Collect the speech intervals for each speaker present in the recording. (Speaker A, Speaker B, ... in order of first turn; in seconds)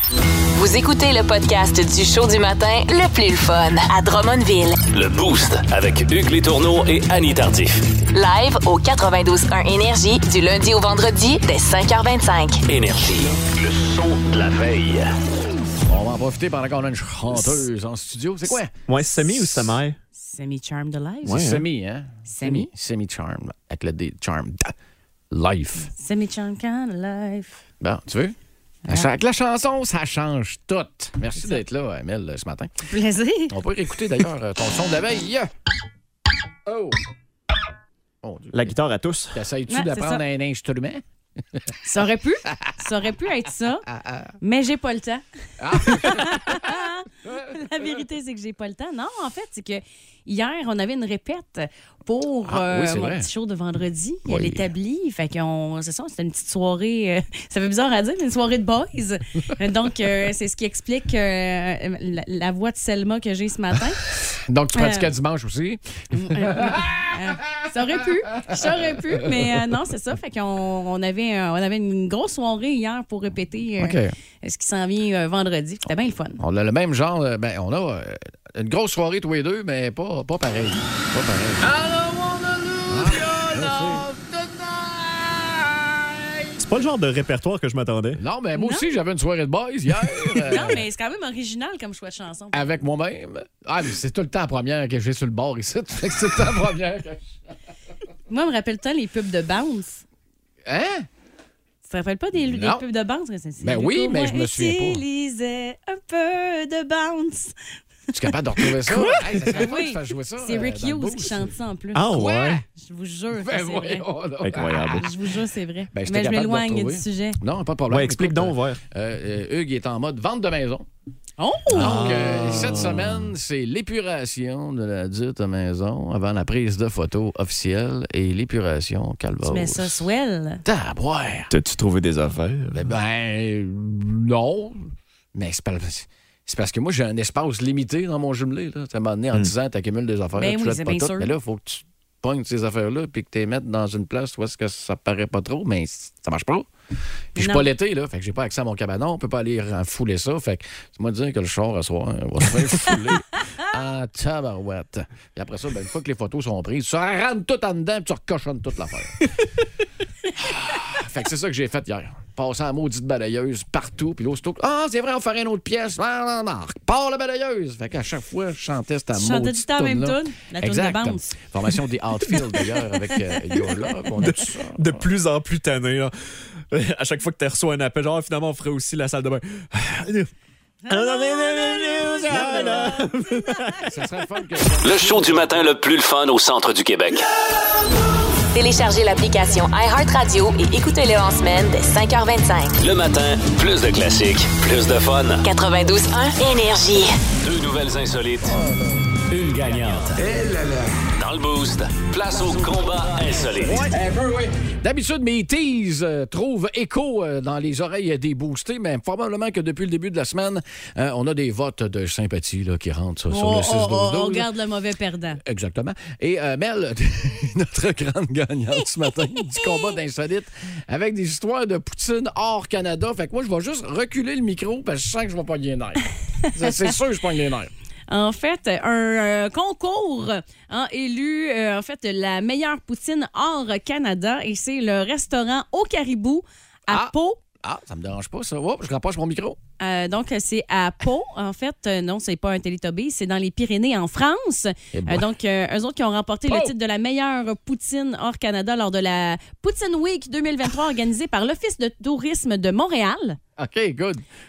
Speaker A: 0.6-4.8, 8.1-12.6, 188.5-192.8, 195.4-197.1
Speaker B: 4.9-7.9, 12.7-15.2, 184.8-187.3, 192.8-195.5, 197.4-198.6, 199.5-200.2, 201.2-203.8
Speaker C: 15.9-18.7, 21.3-24.7, 25.3-25.9, 27.8-28.4, 28.9-32.7, 33.5-35.5, 36.7-37.0, 38.2-38.8, 39.3-41.0, 45.6-46.8, 52.5-53.3, 54.3-54.7, 64.3-67.1, 73.8-74.1, 76.4-81.7, 82.9-84.1, 88.2-90.8, 92.5-97.3, 100.7-101.1, 102.4-102.8, 103.6-105.0, 108.1-112.6, 113.4-115.1, 115.9-120.9, 121.7-130.0, 130.7-131.5, 132.7-146.7, 147.3-159.3, 160.4-175.1, 183.8-185.7, 203.7-204.0, 204.6-214.5, 215.4-227.7, 236.9-239.6, 244.9-245.3, 246.5-246.7, 253.6-254.2
Speaker D: 18.9-20.0, 21.2-21.6, 38.5-39.4, 81.7-84.1, 86.6-88.2, 90.4-90.7, 111.9-112.6, 114.4-115.1, 117.9-118.8, 121.7-123.3, 131.5-132.9, 174.2-176.1, 176.7-180.3, 180.9-183.9, 199.3-200.3
Speaker E: 20.2-21.5, 22.3-22.7, 25.9-27.6, 32.9-33.6, 39.7-40.2, 41.8-43.9, 44.4-64.0, 64.8-65.1, 66.1-76.4, 88.5-88.9, 90.5-92.8, 98.3-100.0, 101.8-107.5, 108.6-112.1, 112.7-114.1, 114.9-117.4, 121.4-122.2, 129.5-130.6, 140.4-141.3, 147.4-147.7, 169.1-171.3, 180.9-183.1, 213.3-215.4, 219.6-219.8, 226.6-227.0, 228.1-237.4, 239.8-253.4